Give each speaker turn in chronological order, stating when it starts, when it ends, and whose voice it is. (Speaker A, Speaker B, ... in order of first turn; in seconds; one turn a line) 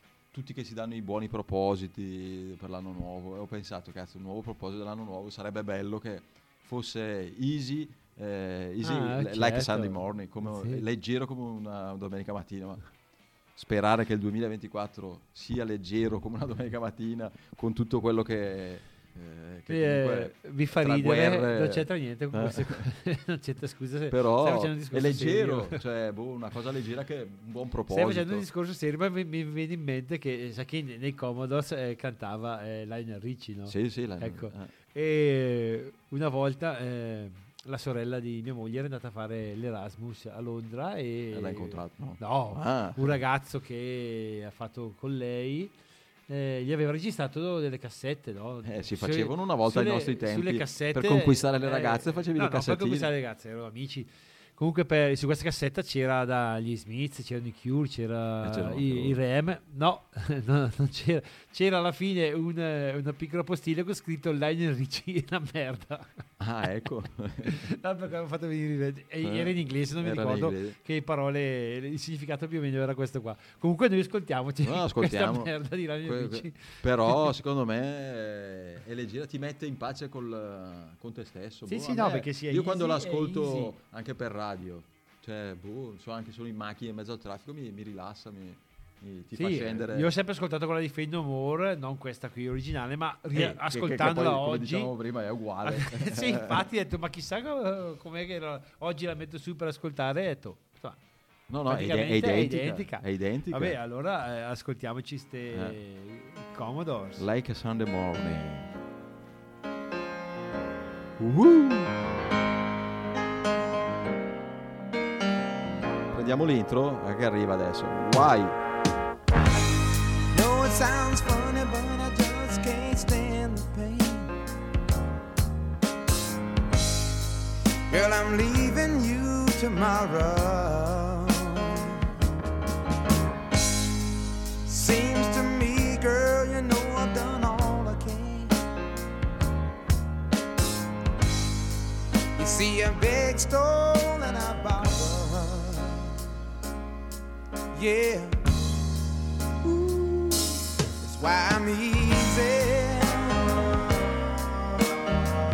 Speaker A: 0.3-12.8
Speaker B: 8.8-10.8
Speaker A: 13.6-22.9
Speaker B: 19.7-25.8
Speaker A: 24.1-28.5
Speaker B: 27.9-45.7
Speaker A: 33.7-34.7
Speaker A: 41.3-43.2
Speaker B: 46.3-66.2
Speaker A: 48.6-53.1
Speaker A: 58.4-59.2
Speaker A: 66.4-67.6
Speaker B: 67.4-77.3
Speaker A: 69.2-70.8
Speaker A: 74.6-90.1
Speaker B: 81.7-83.8
Speaker B: 89.4-94.9
Speaker A: 93.3-96.7
Speaker B: 95.6-101.0
Speaker A: 101.5-103.8
Speaker B: 101.7-107.2
Speaker A: 105.5-105.8
Speaker A: 107.2-108.8
Speaker A: 111.2-111.9
Speaker A: 116.1-118.6
Speaker C: 120.3-124.3
Speaker C: 127.9-131.9
Speaker C: 134.7-138.6
Speaker C: 142.4-146.1
Speaker C: 147.7-148.4
Speaker C: 149.6-153.8